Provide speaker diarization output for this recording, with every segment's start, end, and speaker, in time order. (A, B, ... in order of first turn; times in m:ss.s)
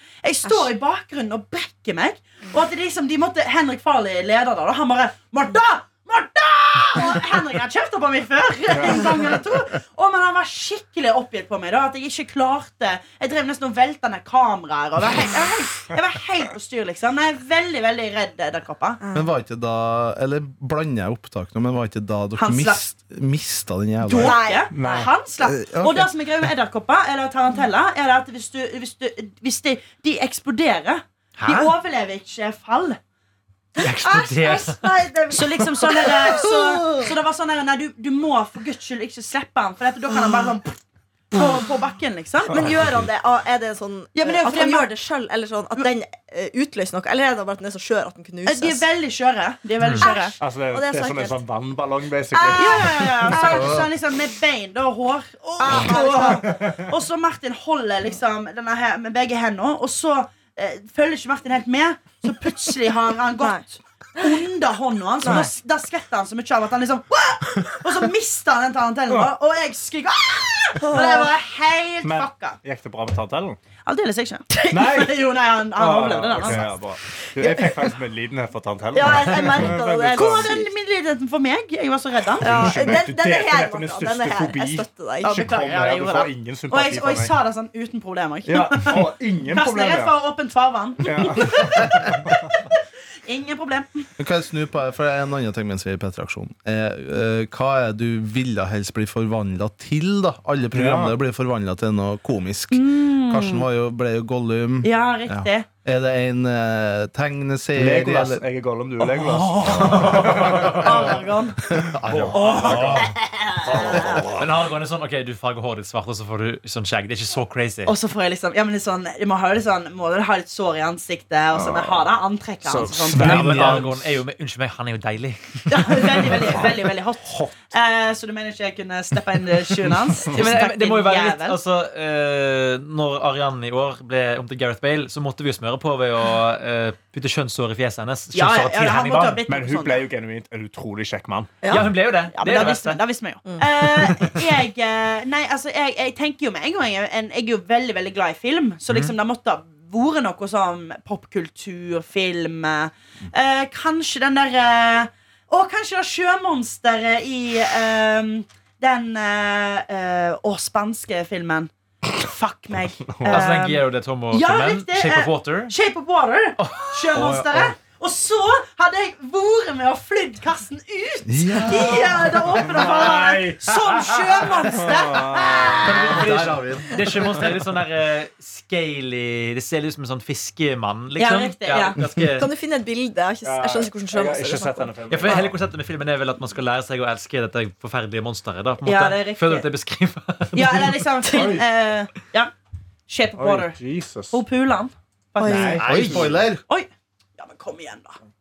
0:00.2-0:19.0 A
0:00.4-0:00.7 B
0:08.7-0:09.3 C
0:19.1-0:24.4 D
0:22.4-0:22.8 A
0:24.1-0:33.0 A
0:24.1-0:24.7 B
0:24.7-0:25.1 C
0:25.4-0:26.1 D
0:31.4-0:31.7 E
0:33.8-0:34.9 E
0:33.8-0:37.1 B
0:35.3-0:40.8 A
0:41.3-0:42.7 A
0:42.5-0:48.8 B
0:44.2-0:45.0 A
0:48.5-0:50.4 A
0:49.8-0:50.1 E
0:50.0-0:51.4 B
0:50.4-0:53.4 C
0:52.3-0:53.8 B
0:52.5-1:12.6 A
0:53.5-0:53.9 D
0:55.6-0:56.5 B
0:55.8-0:56.9 C
1:05.2-1:05.5 B
1:10.8-1:11.3 B
1:12.0-1:13.6 C
1:13.8-1:16.7 A
1:14.7-1:15.2 C
1:15.8-1:20.5 C
1:17.4-1:17.7 B
1:18.9-1:20.7 B
1:20.1-1:22.9 A
1:22.4-1:27.4 C
1:22.4-1:25.5 B
1:25.2-1:32.3 A
1:28.5-1:30.2 C
1:31.0-1:32.5 C
1:33.3-1:34.0 A
1:34.2-1:48.4 D
1:40.7-1:41.2 C
1:42.7-1:43.7 A
1:44.8-1:45.7 A
1:47.8-1:51.2 C
1:49.6-1:50.8 E
1:49.7-1:50.4 D
1:50.7-1:51.6 A
1:51.7-1:53.1 D
1:51.9-1:53.1 C
1:52.3-1:53.1 E
1:52.3-1:54.2 A
1:53.7-1:57.9 E
1:53.7-1:54.4 C
1:53.8-1:54.3 D
1:57.9-2:03.5 A
2:01.6-2:02.0 C
2:02.7-2:03.9 C
2:03.1-2:04.0 D
2:03.1-2:06.4 E
2:05.7-2:11.6 A
2:06.2-2:07.7 C
2:09.8-2:10.4 C
2:10.3-2:19.4 E
2:18.3-2:20.0 A
2:19.5-2:21.5 C
2:21.6-2:21.9 B
2:21.7-2:23.0 E
2:22.3-2:56.2 A
2:43.1-2:43.4 C
2:43.3-2:45.7 E
2:46.6-2:47.2 E
2:47.2-2:47.7 D
2:51.3-2:52.6 D
2:52.6-2:56.0 C
2:55.7-3:02.5 E
2:55.8-2:57.2 D
3:01.2-3:02.0 A
3:02.4-3:05.4 B
3:03.4-3:05.6 C
3:05.1-3:11.0 E
3:08.8-3:09.7 A
3:10.5-3:12.5 A
3:11.3-3:11.7 C
3:13.1-3:13.8 A
3:13.4-3:14.4 C
3:14.3-3:16.2 A
3:15.4-3:15.9 B
3:15.4-3:16.4 C
3:15.8-3:16.6 D
3:15.9-3:16.3 E
3:16.7-3:18.2 A